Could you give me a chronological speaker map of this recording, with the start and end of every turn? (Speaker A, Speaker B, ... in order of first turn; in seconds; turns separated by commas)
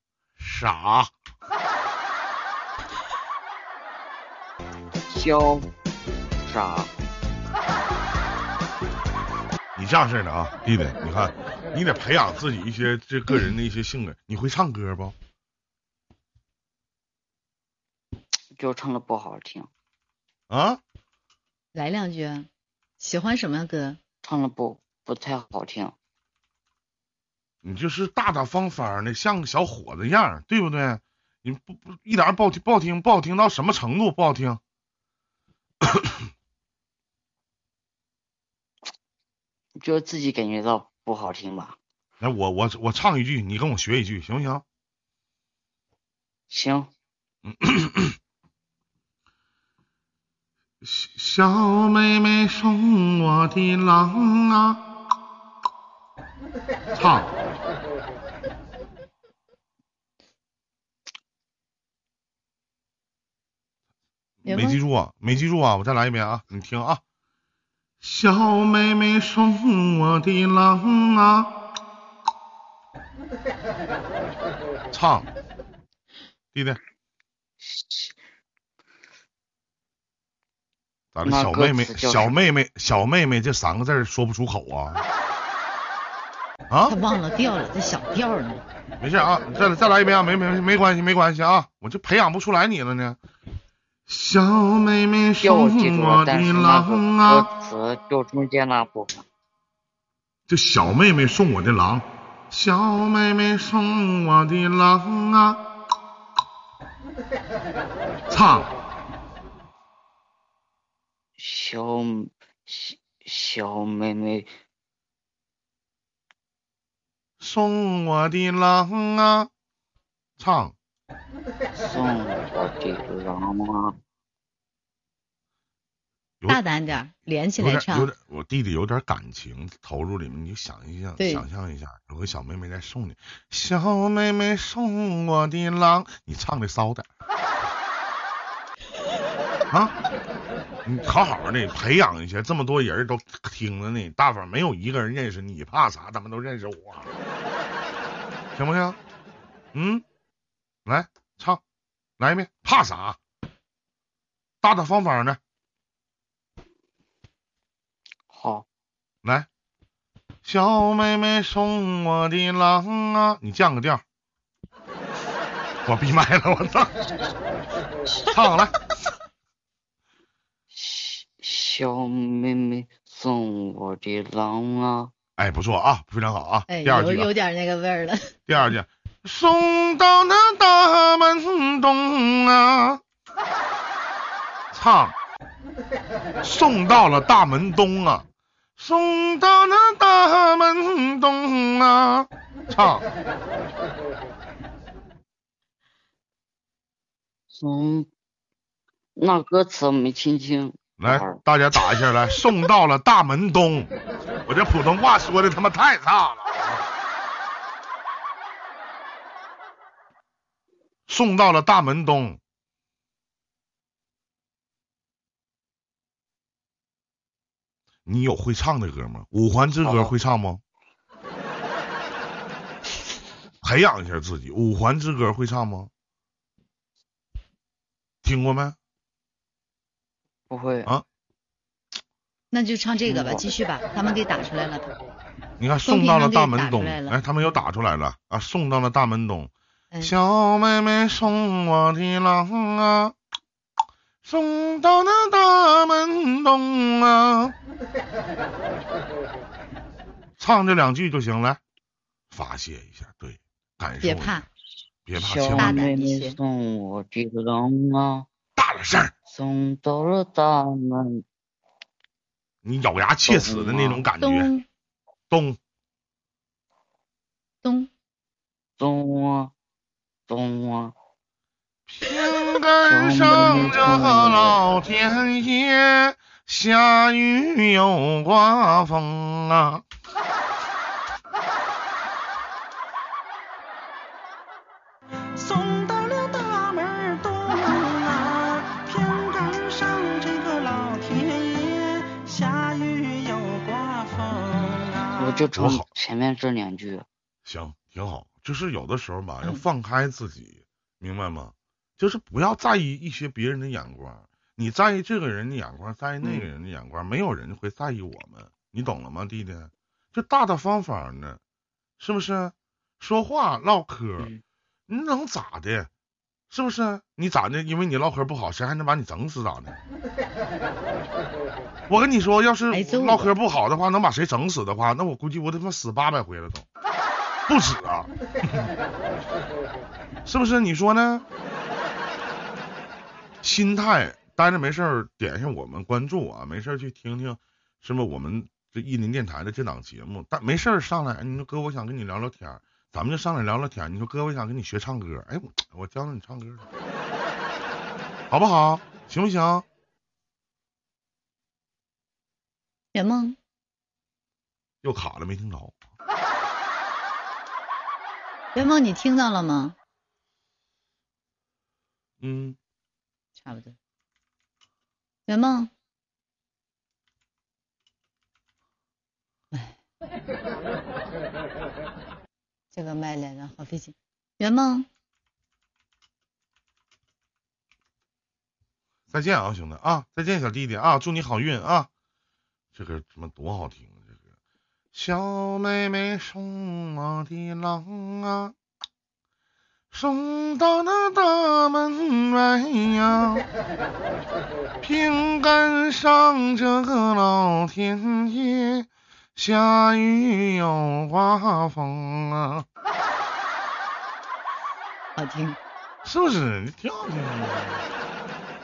Speaker A: 0.4-1.1, Speaker B: 5.1-5.7, Speaker B: 6.4-6.9, Speaker A: 9.8-15.1, Speaker B: 18.6-19.7, Speaker A: 20.5-20.8, Speaker C: 21.7-22.5, Speaker C: 23.0-24.0, Speaker B: 24.2-25.9, Speaker A: 27.6-34.6, Speaker B: 39.8-41.8, Speaker A: 42.2-44.6, Speaker B: 46.5-46.9, Speaker A: 47.5-48.2, Speaker A: 50.8-54.8, Speaker A: 56.9-57.4, Speaker A: 64.4-67.0, Speaker C: 64.5-64.8, Speaker A: 68.0-71.5, Speaker A: 74.9-75.3, Speaker A: 76.5-76.8, Speaker B: 77.6-78.1, Speaker A: 81.1-85.0, Speaker B: 81.2-82.5, Speaker A: 86.7-87.0, Speaker C: 86.8-88.6, Speaker A: 89.0-93.2, Speaker A: 94.1-97.5, Speaker B: 95.4-99.2, Speaker A: 100.5-105.6, Speaker A: 108.3-108.7, Speaker B: 111.4-114.5, Speaker A: 117.4-119.5, Speaker A: 120.4-120.7, Speaker B: 121.7-123.9, Speaker C: 126.5-128.1, Speaker A: 127.6-137.1, Speaker C: 131.2-131.4, Speaker A: 140.8-147.1, Speaker A: 148.5-149.0, Speaker A: 149.7-150.0, Speaker A: 150.8-151.6, Speaker A: 152.2-153.2, Speaker A: 154.6-155.4, Speaker B: 158.3-158.7, Speaker A: 160.4-164.0, Speaker A: 165.8-166.9, Speaker A: 168.2-168.7, Speaker B: 170.7-175.1, Speaker A: 175.4-177.3, Speaker C: 176.7-178.3, Speaker A: 178.5-183.0, Speaker A: 184.7-185.1, Speaker A: 186.4-188.2, Speaker A: 188.8-193.0, Speaker B: 197.5-198.1, Speaker B: 199.2-201.4, Speaker A: 201.0-203.9, Speaker A: 204.4-206.8, Speaker A: 211.1-212.4, Speaker A: 218.0-220.6, Speaker B: 219.8-220.1, Speaker A: 223.6-225.9, Speaker A: 228.2-228.8, Speaker B: 230.5-230.9, Speaker C: 232.5-234.9, Speaker B: 233.0-233.4, Speaker A: 235.6-243.1, Speaker C: 235.8-237.2, Speaker A: 244.2-247.5, Speaker A: 250.4-251.6, Speaker A: 252.3-254.4, Speaker C: 254.0-254.4, Speaker A: 255.1-255.8, Speaker B: 255.1-258.3, Speaker C: 255.5-256.4, Speaker A: 258.6-259.1, Speaker B: 259.3-261.2, Speaker A: 262.6-264.5, Speaker B: 263.2-264.1, Speaker C: 264.2-264.6, Speaker A: 265.3-265.6, Speaker C: 267.6-267.9, Speaker B: 268.8-269.5, Speaker B: 270.3-270.9, Speaker A: 271.9-279.8, Speaker B: 272.9-274.6, Speaker D: 285.3-295.3, Speaker B: 295.2-297.1, Speaker A: 295.6-295.9, Speaker A: 297.4-311.4, Speaker B: 306.2-306.5, Speaker A: 312.0-314.3, Speaker A: 314.9-315.9, Speaker A: 316.5-319.8, Speaker A: 321.9-326.6, Speaker C: 322.7-323.3, Speaker A: 327.5-328.7, Speaker A: 330.2-331.2, Speaker A: 333.4-346.6, Speaker A: 348.3-349.6, Speaker C: 352.9-353.4, Speaker A: 354.8-355.7, Speaker C: 358.5-359.8, Speaker A: 362.2-362.6, Speaker C: 363.4-363.8, Speaker C: 365.3-365.7, Speaker C: 369.5-369.8, Speaker C: 372.7-374.9, Speaker A: 379.1-381.9, Speaker A: 382.7-384.1, Speaker A: 384.9-388.5, Speaker A: 389.9-393.4, Speaker A: 394.8-402.6, Speaker C: 405.2-405.6, Speaker A: 406.0-407.9